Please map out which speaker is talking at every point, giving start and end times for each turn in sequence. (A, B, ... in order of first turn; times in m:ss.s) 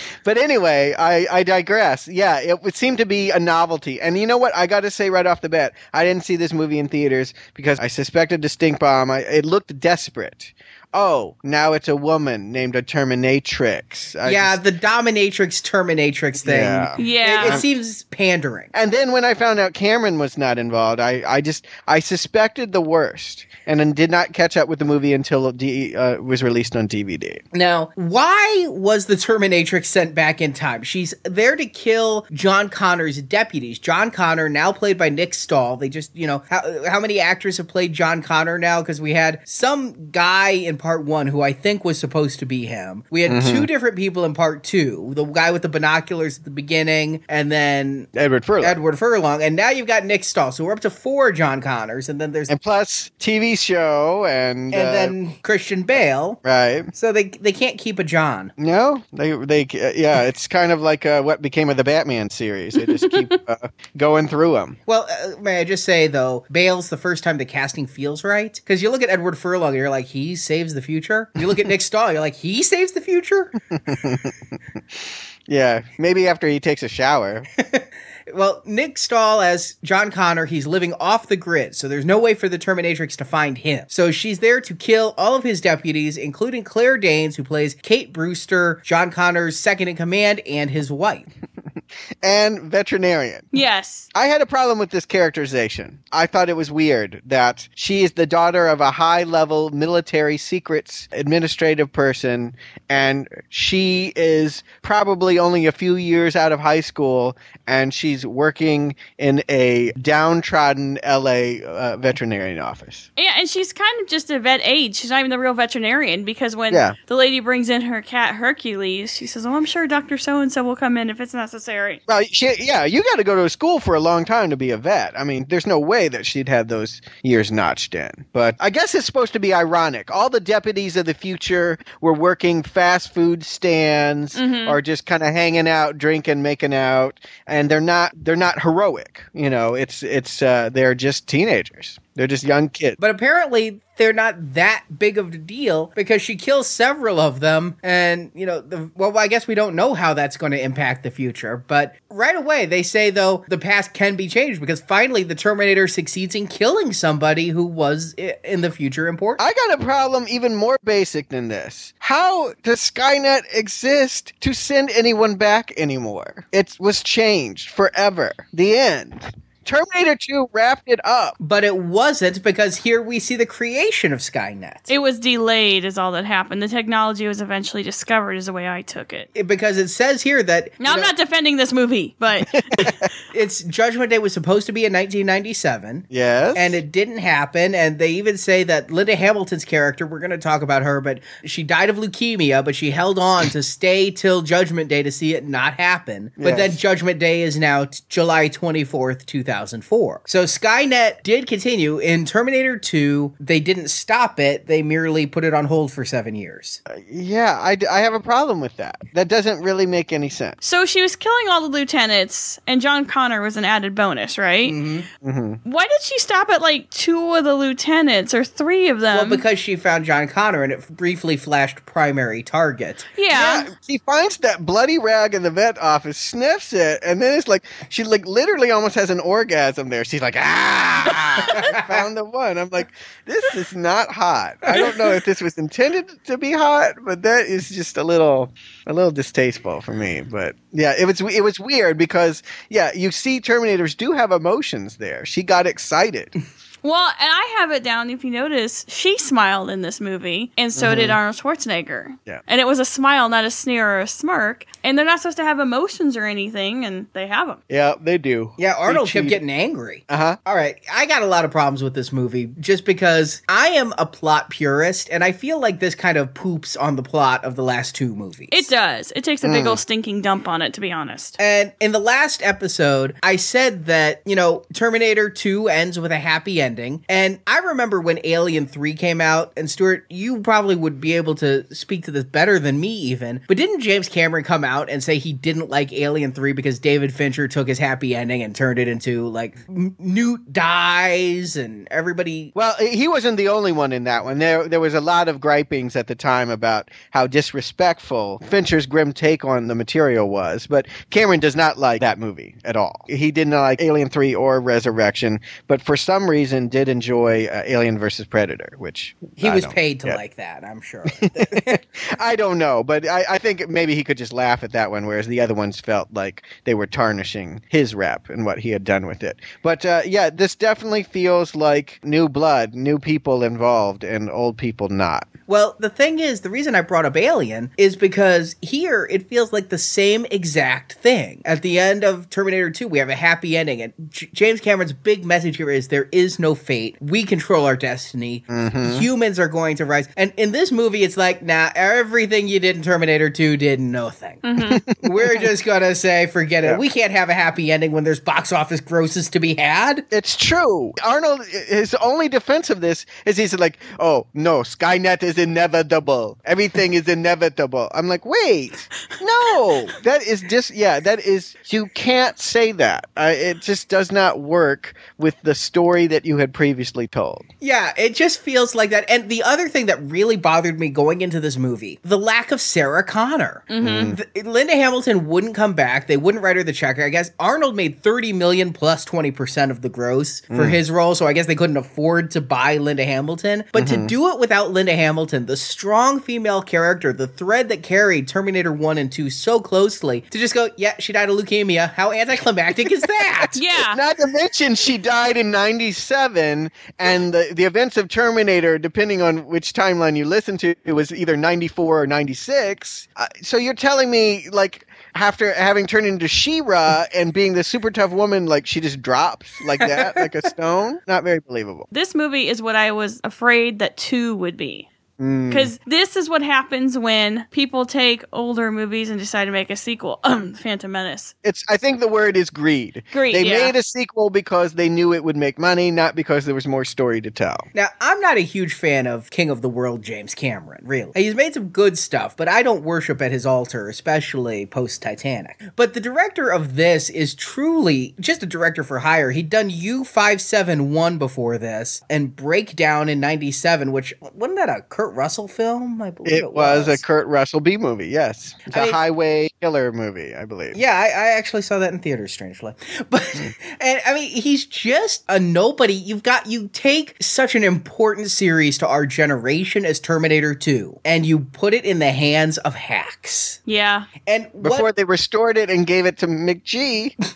0:00.2-0:14.6 A
0:14.2-0:18.7 B
0:16.4-0:17.6 A
0:17.0-0:17.6 C
0:18.7-0:27.4 A
0:27.5-0:48.1 B
0:43.3-0:43.7 A
0:48.1-0:48.8 A
0:48.6-0:52.5 B
0:52.5-0:55.1 A
0:54.7-0:56.4 B
0:56.4-0:56.9 A
0:56.9-0:58.5 B
0:58.6-1:04.8 A
1:04.9-1:13.6 B
1:13.9-1:14.3 A
1:15.5-1:17.4 A
1:17.6-1:31.2 B
1:32.2-1:33.5 A
1:33.5-1:34.1 C
1:34.1-1:53.1 A
1:53.2-2:02.0 C
1:56.7-1:57.0 A
2:02.1-2:23.0 A
2:14.3-2:14.8 C
2:23.0-2:39.4 B
2:39.4-2:51.4 A
2:51.4-2:54.9 B
2:54.9-2:59.3 C
2:59.3-3:01.1 B
3:00.8-3:03.0 C
3:02.6-3:03.0 A
3:03.3-3:26.8 B
3:06.1-3:06.8 A
3:16.4-3:16.8 A
3:26.9-3:30.6 A
3:30.6-3:34.8 C
3:34.6-3:35.1 B
3:35.2-3:35.6 A
3:35.6-3:39.4 C
3:39.1-3:43.0 B
3:43.1-3:43.7 C
3:43.3-4:06.3 A
3:51.2-3:51.6 C
3:51.5-3:52.0 B
4:06.8-4:17.6 C
4:10.7-4:11.2 A
4:17.7-4:19.4 A
4:18.6-4:28.7 B
4:20.1-4:20.4 A
4:28.5-4:31.4 C
4:29.4-4:29.8 A
4:31.4-4:52.5 B
4:52.5-5:10.2 A
5:09.4-5:11.8 B
5:11.2-5:25.3 A
5:25.5-5:44.4 B
5:38.5-5:39.0 A
5:44.4-5:44.8 C
5:44.6-5:45.4 A
5:45.0-5:50.1 B
5:50.1-6:07.5 A
6:07.6-6:33.6 B
6:13.7-6:14.2 C
6:13.8-6:14.2 A
6:20.5-6:20.8 A
6:23.8-6:24.1 A
6:33.6-6:34.0 C
6:33.9-6:51.9 A
6:49.8-6:50.2 B
6:51.9-6:54.9 C
6:55.2-6:55.7 A
6:55.5-7:01.3 C
7:01.4-7:07.6 A
7:03.1-7:03.7 C
7:07.7-7:27.0 B
7:26.2-7:30.8 A
7:28.7-7:29.0 B
7:30.7-7:43.6 B
7:43.7-7:44.1 C
7:44.2-7:44.9 B
7:44.6-7:47.1 A